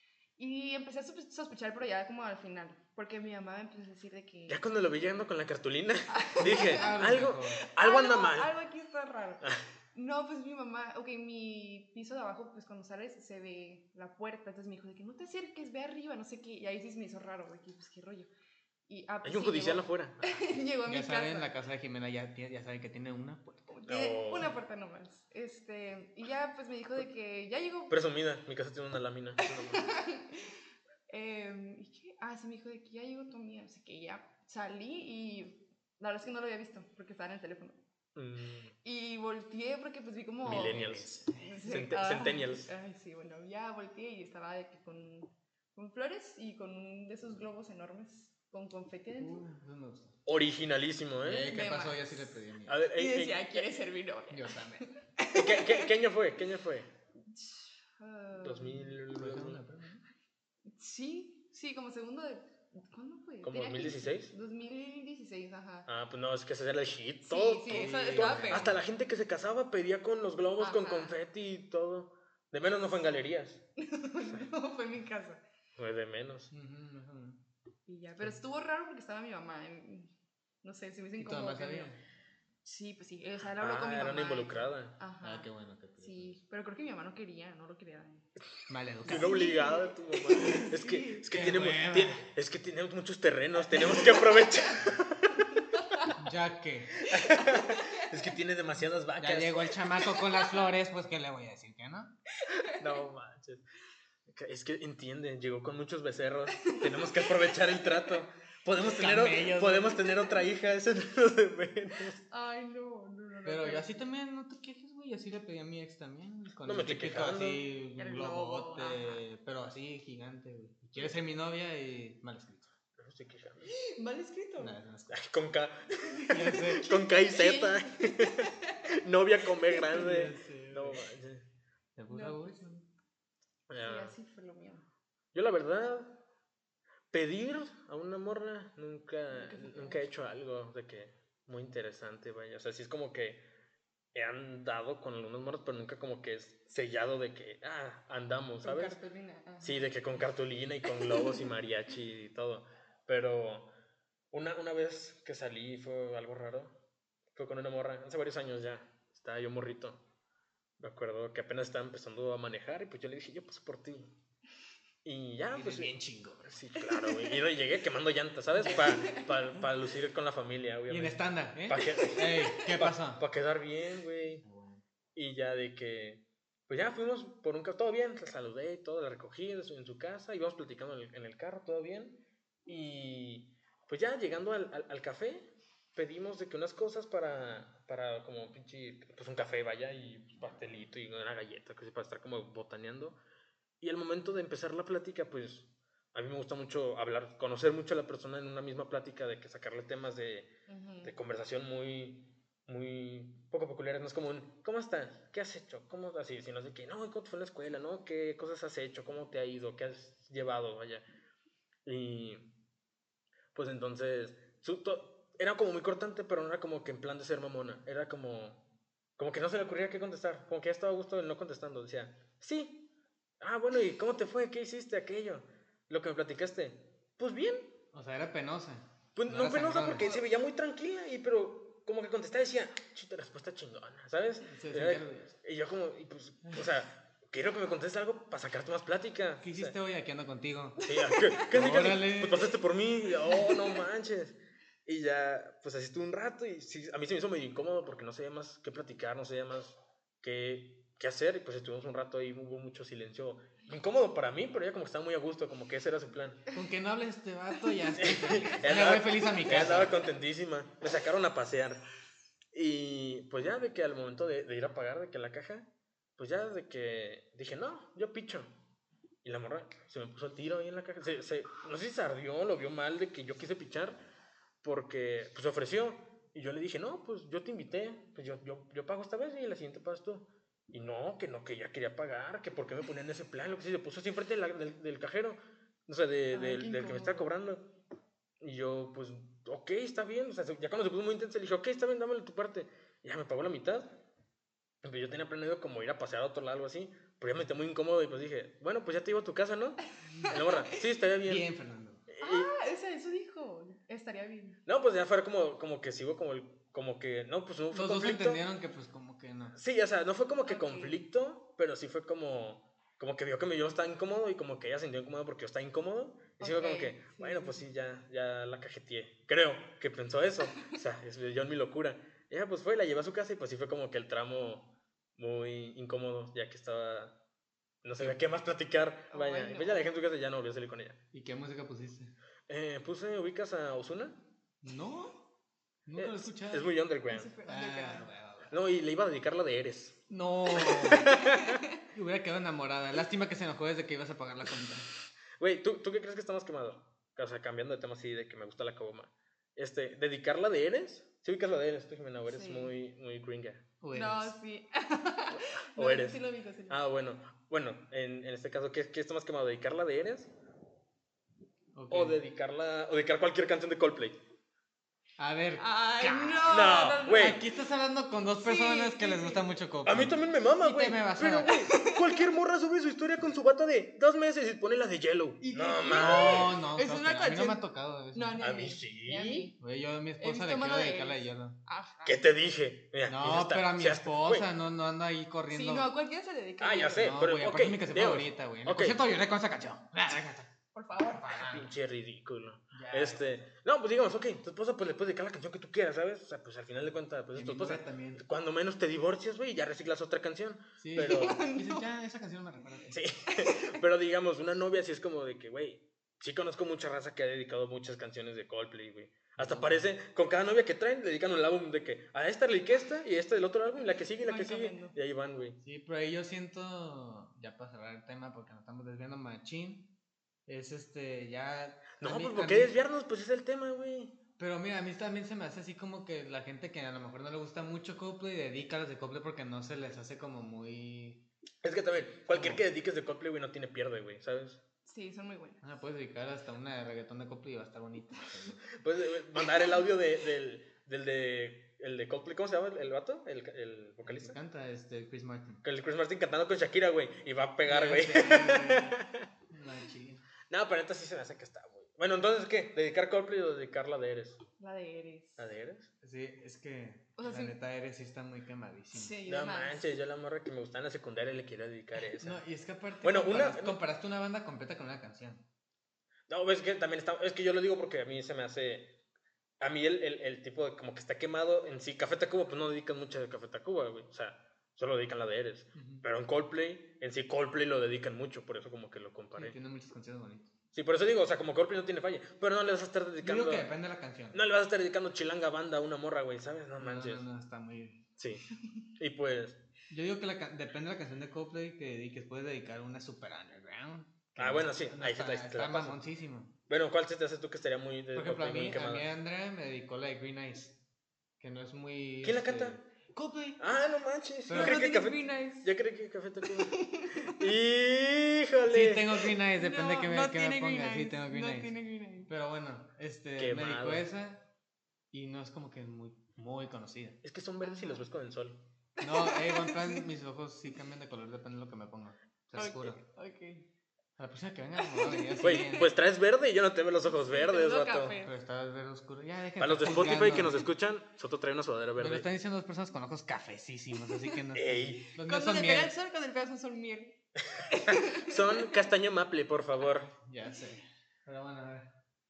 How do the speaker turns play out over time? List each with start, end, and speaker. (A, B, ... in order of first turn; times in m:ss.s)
0:00.4-0:04.6 A
0:04.5-0:08.5 B
0:06.1-0:18.3 A
0:06.4-0:07.6 C
0:18.9-0:21.5 A
0:19.2-0:20.4 B
0:20.9-0:23.7 C
0:23.7-0:28.0 A
0:23.9-0:24.5 B
0:27.9-0:29.9 B
0:29.4-0:30.6 A
0:31.1-0:37.8 A
0:38.2-0:38.7 B
0:38.8-0:49.4 A
0:40.4-0:42.7 B
0:40.5-0:41.6 C
0:49.2-0:50.2 C
0:50.3-0:51.6 B
0:51.2-0:52.8 C
0:51.5-0:52.4 A
0:52.7-0:53.8 B
0:52.9-0:55.9 A
0:54.3-0:54.8 C
0:55.3-0:56.9 B
0:57.3-0:58.9 A
0:58.4-0:59.6 B
0:59.1-1:00.0 C
1:00.7-1:05.9 A
1:03.4-1:04.3 B
1:05.9-1:13.6 B
1:07.2-1:08.7 A
1:07.7-1:08.8 C
1:10.6-1:11.2 A
1:13.8-1:15.4 A
1:15.8-1:16.5 B
1:16.5-1:17.4 C
1:17.9-1:20.1 A
1:20.6-1:21.9 A
1:21.2-1:22.0 C
1:22.6-1:28.2 A
1:23.6-1:25.0 B
1:25.2-1:26.4 C
1:28.7-1:29.4 C
1:29.0-1:35.6 B
1:29.1-1:31.3 A
1:31.3-1:32.3 C
1:33.9-1:34.5 A
1:35.7-1:36.1 A
1:36.2-1:37.1 C
1:37.0-1:39.9 B
1:37.1-1:38.4 A
1:39.2-1:42.1 C
1:40.2-1:40.6 A
1:42.4-1:42.8 A
1:42.7-1:43.6 B
1:44.3-1:52.2 B
1:46.6-1:48.2 A
1:48.8-1:50.0 C
1:50.0-1:50.4 A
1:52.3-1:53.8 A
1:53.4-2:02.7 C
1:56.6-1:57.6 B
1:58.0-1:59.2 A
2:03.0-2:03.7 B
2:03.7-2:04.8 A
2:04.6-2:05.2 C
2:05.1-2:11.4 B
2:06.1-2:08.7 A
2:06.3-2:06.9 C
2:09.9-2:11.1 C
2:12.0-2:12.8 C
2:12.1-2:12.8 A
2:13.7-2:14.2 B
2:13.8-2:14.9 A
2:15.3-2:16.2 B
2:17.1-2:23.4 B
2:19.3-2:20.0 A
2:24.1-2:29.0 B
2:28.6-2:29.9 A
2:29.6-2:33.7 B
2:31.0-2:31.5 A
2:34.3-2:36.7 B
2:37.4-2:40.0 B
2:40.8-2:44.1 B
2:45.0-2:45.9 B
2:45.5-2:46.6 C
2:46.5-2:54.4 B
2:47.0-2:47.4 A
2:48.6-2:49.5 A
2:50.9-2:53.2 C
2:54.4-2:54.8 C
2:55.2-3:13.2 B
3:13.8-3:20.5 B
3:20.7-3:21.1 A
3:21.0-3:31.0 B
3:31.8-3:32.4 B
3:33.5-3:38.6 B
3:39.2-3:42.9 B
3:43.4-3:47.7 B
3:47.9-3:50.1 C
3:49.2-3:59.8 B
3:54.4-3:55.3 C
3:59.4-4:00.8 C
4:00.8-4:16.4 B
4:01.4-4:02.6 C
4:03.3-4:03.6 A
4:16.5-4:20.0 C
4:18.0-4:21.8 B
4:22.5-4:28.5 B
4:29.2-4:34.0 B
4:34.6-4:47.7 B
4:46.3-4:47.3 A
4:48.4-4:54.0 B
4:54.8-5:01.5 B
5:00.1-5:00.8 A
5:01.2-5:02.0 C
5:02.1-5:02.5 B
5:02.2-5:04.6 A
5:04.7-5:08.4 B
5:07.7-5:09.6 C
5:09.6-5:27.1 B
5:10.5-5:11.0 A
5:16.4-5:17.6 A
5:27.8-5:31.0 B
5:29.1-5:29.9 A
5:31.1-5:32.1 C
5:32.5-5:34.2 B
5:34.6-5:35.2 C
5:35.9-5:36.7 C
5:36.0-5:37.3 B
5:37.1-5:38.1 A
5:37.4-5:38.5 C
5:38.5-5:40.0 B
5:40.1-5:41.1 C
5:40.5-5:41.6 B
5:41.1-5:41.6 A
5:41.9-5:44.9 C
5:45.4-5:53.6 B
5:52.3-5:52.7 A
5:53.8-5:54.4 C
5:53.9-5:56.8 A
5:55.3-6:00.3 B
6:01.7-6:02.2 C
6:01.9-6:04.2 B
6:05.2-6:11.6 C
6:05.6-6:07.5 A
6:06.5-6:07.4 B
6:08.3-6:09.5 A
6:09.8-6:16.6 B
6:11.4-6:12.3 A
6:15.4-6:17.6 A
6:15.9-6:18.4 C
6:18.1-6:19.6 A
6:18.4-6:19.5 B
6:19.6-6:21.6 C
6:20.2-6:22.3 A
6:22.0-6:24.5 B
6:23.0-6:25.9 C
6:25.5-6:27.1 A
6:26.6-6:29.0 B
6:27.0-6:30.5 C
6:30.7-6:31.5 A
6:31.1-6:31.7 C
6:31.3-6:41.4 B
6:32.7-6:33.4 C
6:37.4-6:38.2 C
6:40.8-6:43.0 C
6:41.0-6:41.9 A
6:42.9-6:55.6 B
6:43.3-6:43.8 A
6:49.4-6:49.9 C
6:54.2-6:55.0 A
6:55.6-6:59.9 C
7:00.5-7:02.7 C
7:02.0-7:04.1 B
7:04.4-7:11.2 C
7:11.6-7:14.6 B
7:12.3-7:12.6 C
7:14.9-7:15.6 A
7:15.6-7:18.6 C
7:18.7-7:24.4 B
7:24.0-7:25.6 C
7:25.6-7:29.3 B
7:27.6-7:29.0 C
7:29.5-7:30.2 C
7:30.5-7:34.4 B
7:34.6-7:35.4 A
7:35.4-7:35.9 B
7:36.0-7:39.2 C
7:37.2-7:37.6 A
7:38.9-7:39.9 A
7:39.3-7:42.4 B
7:42.0-7:45.4 C
7:43.0-7:43.8 B
7:46.3-7:48.9 B
7:49.6-7:59.6 B
7:55.8-7:56.0 C
7:59.4-8:00.5 C
8:00.7-8:03.7 B
8:03.2-8:04.4 C
8:04.3-8:07.3 B
8:06.8-8:08.0 C
8:08.2-8:08.4 B
8:09.0-8:09.6 B
8:09.9-8:16.5 C
8:14.4-8:16.0 B
8:16.7-8:19.1 B
8:18.1-8:20.8 C
8:21.4-8:23.6 C
8:22.2-8:22.8 B
8:23.6-8:29.1 B
8:24.5-8:24.8 C
8:24.5-8:25.7 A
8:26.4-8:27.5 A
8:28.7-8:31.7 C
8:29.3-8:32.3 A
8:32.3-8:34.4 C
8:33.4-8:34.1 B
8:35.1-8:37.2 C
8:37.2-8:38.6 B
8:37.6-8:38.0 A
8:39.0-8:40.1 A
8:39.0-8:43.0 C
8:42.6-8:43.7 A
8:44.2-8:45.9 C
8:44.8-8:45.9 A
8:45.4-8:48.2 B
8:47.1-8:48.3 A
8:48.2-8:50.7 C
8:49.6-8:52.3 B
8:52.0-8:55.9 C
8:54.5-8:55.1 B
8:55.2-8:57.2 A
8:57.5-9:00.1 B
8:57.7-8:58.8 A
9:00.2-9:01.9 C